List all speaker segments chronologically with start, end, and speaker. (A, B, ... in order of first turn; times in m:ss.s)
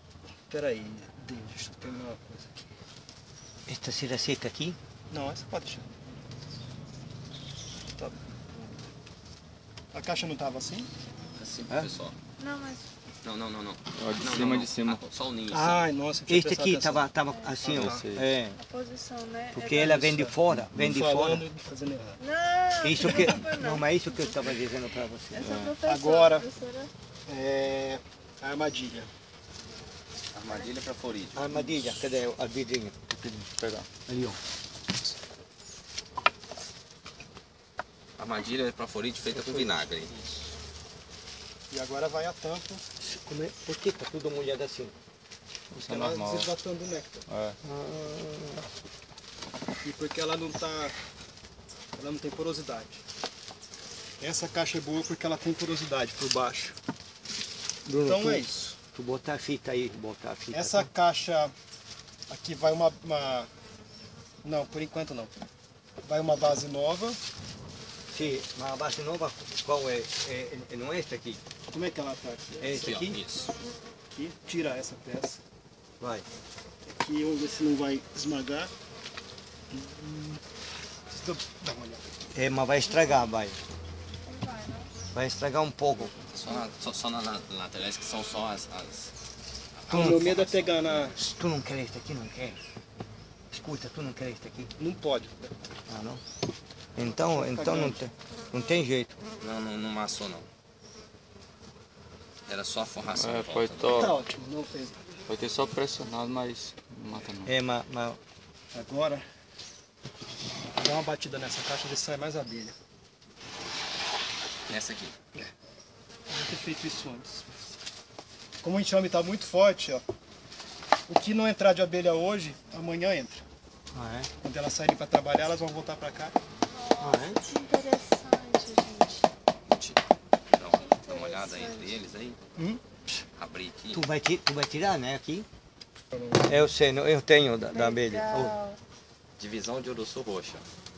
0:00.5-0:02.7 A
0:03.7-0:04.8 B
0:05.1-0:05.9 A
0:09.9-0:10.9 A
0:11.4-0:12.2 C
0:12.4-0:12.9 D
0:13.2-0:15.8 C
0:13.9-0:15.0 E
0:15.5-0:17.1 A
0:16.3-0:18.6 B
0:17.3-0:17.7 D
0:17.6-0:18.1 A
0:17.7-0:18.3 E
0:18.6-0:19.9 D
0:19.5-0:21.4 B
0:19.7-0:22.2 A
0:22.2-0:24.3 D
0:22.8-0:25.4 B
0:25.3-0:26.9 D
0:25.4-0:25.8 E
0:25.8-0:26.5 A
0:27.3-0:29.1 A
0:30.3-0:31.6 C
0:31.3-0:33.5 B
0:33.5-0:33.9 E
0:34.0-0:34.4 B
0:38.2-0:40.2 C
0:39.3-0:39.7 B
0:41.7-0:42.8 A
0:43.0-0:44.9 B
0:45.7-0:46.5 E
0:45.8-0:47.2 A
0:47.3-0:47.6 E
0:47.6-0:48.7 B
0:49.8-0:51.0 A
0:51.9-0:53.0 A
0:54.2-0:56.8 A
0:57.9-1:00.9 B
0:58.0-0:58.8 A
1:00.5-1:01.5 A
1:02.3-1:03.5 A
1:04.4-1:05.3 A
1:06.0-1:07.2 A
1:08.1-1:11.4 B
1:11.7-1:12.9 A
1:12.6-1:13.2 B
1:12.7-1:13.5 C
1:14.1-1:15.4 A
1:16.0-1:16.2 B
1:16.9-1:18.7 A
1:19.7-1:20.4 A
1:21.1-1:22.1 A
1:22.3-1:23.6 B
1:24.2-1:24.9 D
1:25.1-1:26.1 B
1:26.3-1:29.1 C
1:29.8-1:31.1 C
1:29.9-1:31.2 A
1:29.9-1:30.3 B
1:31.0-1:32.6 B
1:33.5-1:34.7 B
1:34.8-1:35.6 A
1:35.9-1:36.2 B
1:37.0-1:39.2 B
1:37.0-1:38.1 A
1:39.4-1:40.5 C
1:42.5-1:44.1 C
1:43.1-1:44.2 E
1:43.9-1:45.1 A
1:45.3-1:47.6 E
1:47.4-1:48.2 B
1:48.7-1:49.2 A
1:50.8-1:52.8 A
1:54.7-1:55.1 C
1:56.3-1:57.5 A
1:58.6-2:00.0 A
2:01.1-2:03.4 A
2:03.9-2:04.3 B
2:04.4-2:06.4 A
2:06.7-2:09.3 D
2:07.0-2:07.4 B
2:09.7-2:10.0 C
2:10.5-2:12.4 C
2:10.6-2:12.0 D
2:12.6-2:12.8 A
2:13.4-2:14.1 C
2:13.9-2:15.5 B
2:16.1-2:16.7 A
2:16.4-2:18.6 B
2:17.7-2:18.8 D
2:19.4-2:20.6 C